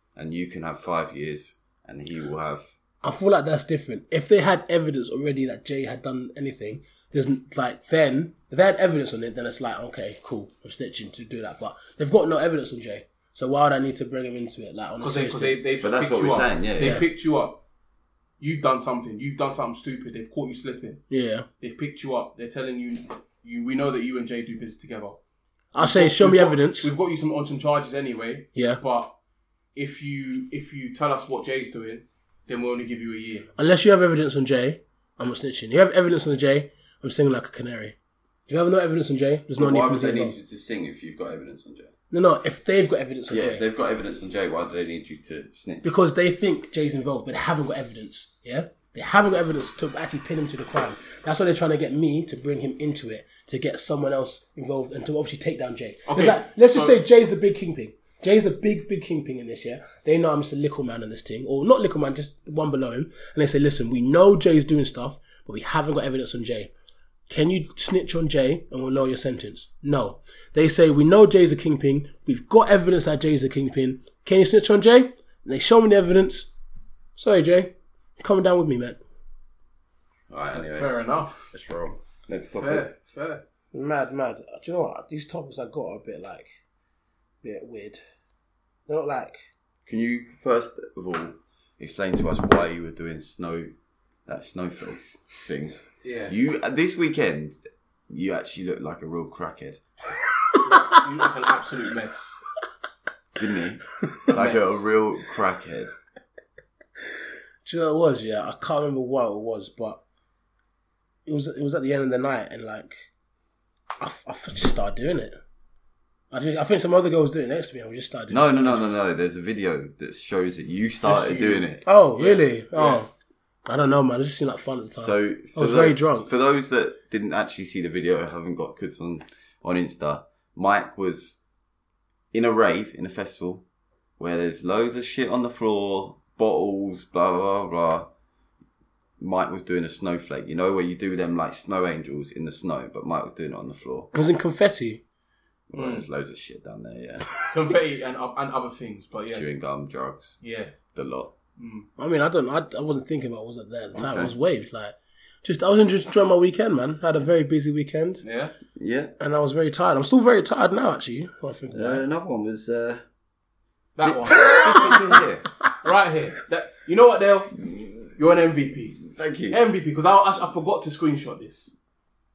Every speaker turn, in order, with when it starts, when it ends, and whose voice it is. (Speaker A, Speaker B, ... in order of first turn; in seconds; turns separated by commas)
Speaker A: 0.2-2.7, Speaker B: 3.0-15.6, Speaker C: 15.0-17.6, Speaker A: 15.8-17.0, Speaker C: 18.4-21.0, Speaker B: 21.1-21.4, Speaker C: 21.6-25.2, Speaker B: 25.7-26.9, Speaker C: 25.8-29.1, Speaker B: 28.6-28.8, Speaker C: 29.7-33.5, Speaker B: 33.6-38.0, Speaker B: 38.5-40.4, Speaker A: 39.6-41.9, Speaker B: 42.1-43.6, Speaker A: 43.3-45.9, Speaker B: 45.8-66.7, Speaker C: 56.1-57.0, Speaker B: 67.3-76.5, Speaker B: 77.2-79.0, Speaker A: 80.3-82.8, Speaker C: 80.5-81.5, Speaker C: 82.5-83.4, Speaker B: 83.7-86.6, Speaker B: 87.4-88.0, Speaker B: 88.9-89.4, Speaker A: 89.9-93.7, Speaker A: 94.3-99.8, Speaker C: 96.0-96.3, Speaker C: 100.6-102.4, Speaker A: 103.4-105.9, Speaker C: 104.3-104.9, Speaker B: 107.6-110.0, Speaker B: 111.3-113.0, Speaker B: 114.0-115.4, Speaker B: 116.3-119.0, Speaker A: 118.3-121.8, Speaker C: 121.0-123.0, Speaker B: 121.9-123.1, Speaker B: 123.7-126.3, Speaker A: 125.0-131.4, Speaker A: 132.3-133.6, Speaker A: 134.2-138.1, Speaker A: 139.2-144.1, Speaker B: 144.1-145.0, Speaker A: 145.7-147.3, Speaker C: 145.7-146.1, Speaker C: 147.5-149.4, Speaker A: 149.3-150.4, Speaker C: 150.4-150.8, Speaker A: 150.9-151.3, Speaker C: 151.6-151.9, Speaker B: 152.0-158.2, Speaker A: 153.9-154.3, Speaker C: 158.2-158.5, Speaker A: 158.8-159.1, Speaker B: 159.2-162.0, Speaker A: 161.7-163.0, Speaker C: 164.0-165.0, Speaker B: 164.3-164.9, Speaker A: 164.4-165.4, Speaker C: 165.8-171.7, Speaker A: 169.1-169.6